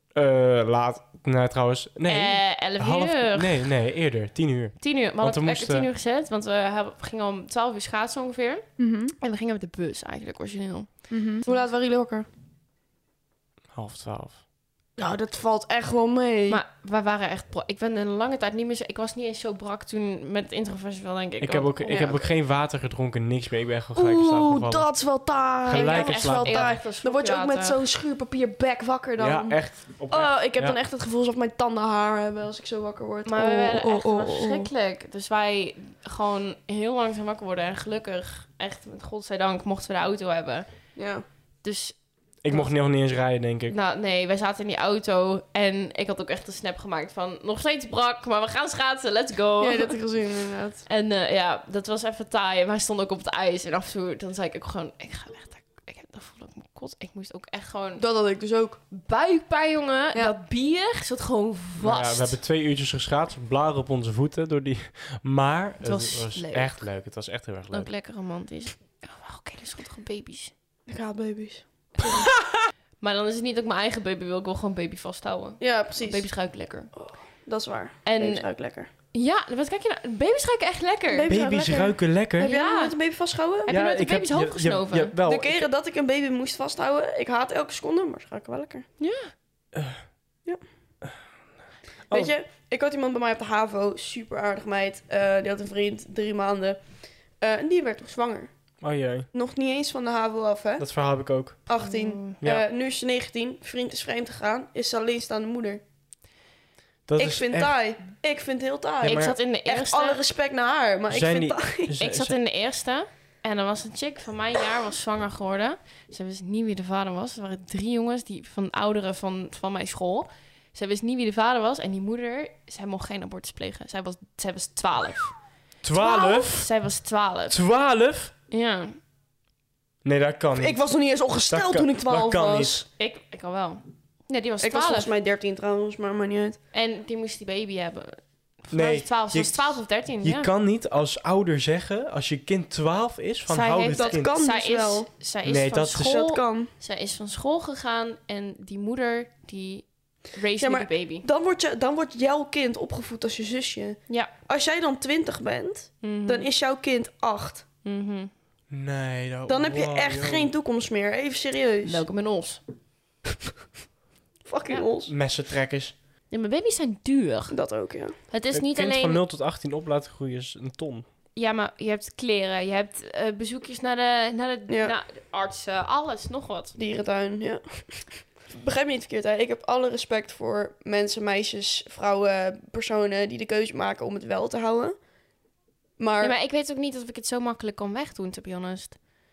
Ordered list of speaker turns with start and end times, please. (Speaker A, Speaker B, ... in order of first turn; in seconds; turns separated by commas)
Speaker A: 0.1-5.9, Speaker B: 2.1-3.7, Speaker B: 4.8-8.7, Speaker C: 8.8-9.1, Speaker B: 9.2-11.5, Speaker C: 11.1-12.3, Speaker A: 13.7-14.4, Speaker C: 15.0-16.6, Speaker B: 16.5-22.2, Speaker A: 21.4-24.9, Speaker C: 21.9-22.2, Speaker C: 23.9-34.7, Speaker A: 25.7-26.8, Speaker B: 25.7-27.8, Speaker A: 29.2-30.8, Speaker B: 33.3-40.7, Speaker C: 41.0-41.2, Speaker B: 41.6-42.7, Speaker A: 42.4-43.8, Speaker B: 43.7-50.0, Speaker C: 49.6-50.9, Speaker B: 50.9-58.0, Speaker C: 58.0-58.8, Speaker B: 58.9-62.4, Speaker A: 61.8-67.9, Speaker B: 65.8-66.9, Speaker B: 67.7-70.5, Speaker C: 70.9-72.3, Speaker B: 72.0-72.3, Speaker B: 73.0-76.9, Speaker C: 75.6-76.3, Speaker C: 76.9-78.9, Speaker B: 78.0-78.5, Speaker B: 79.1-81.3, Speaker C: 81.1-83.7, Speaker A: 81.3-82.5, Speaker B: 82.4-83.0, Speaker B: 83.6-85.1, Speaker A: 83.7-85.7, Speaker C: 85.2-88.9, Speaker B: 89.0-89.3, Speaker A: 89.7-90.1, Speaker C: 92.1-96.8, Speaker C: 97.4-98.5, Speaker A: 98.8-99.3, Speaker C: 99.3-100.9, Speaker A: 100.8-101.6, Speaker C: 101.7-105.8, Speaker B: 101.8-102.4, Speaker A: 107.1-107.8, Speaker C: 107.2-111.9, Speaker A: 109.0-109.4, Speaker B: 109.0-110.2, Speaker A: 111.1-112.3, Speaker B: 112.0-125.4, Speaker A: 125.8-126.7, Speaker B: 125.9-127.6, Speaker A: 127.5-128.3, Speaker B: 128.5-129.0, Speaker A: 130.1-130.8, Speaker C: 130.6-132.9, Speaker A: 131.5-132.8, Speaker B: 133.0-135.1, Speaker C: 134.6-136.6, Speaker B: 136.7-140.5, Speaker A: 138.7-144.3, Speaker B: 143.5-151.2, Speaker C: 143.9-145.1, Speaker A: 145.4-146.2, Speaker C: 146.0-146.7, Speaker C: 150.6-157.6, Speaker B: 156.0-156.5, Speaker B: 157.8-158.3, Speaker A: 158.7-160.5, Speaker C: 159.5-162.0, Speaker B: 161.8-162.6, Speaker C: 164.4-165.1, Speaker A: 165.1-165.9, Speaker B: 166.3-167.6, Speaker C: 167.5-168.1, Speaker B: 168.3-169.2, Speaker A: 168.5-171.1, Speaker B: 171.4-176.8, Speaker C: 174.7-174.9, Speaker C: 176.8-185.0, Speaker C: 186.0-186.3, Speaker B: 186.2-189.1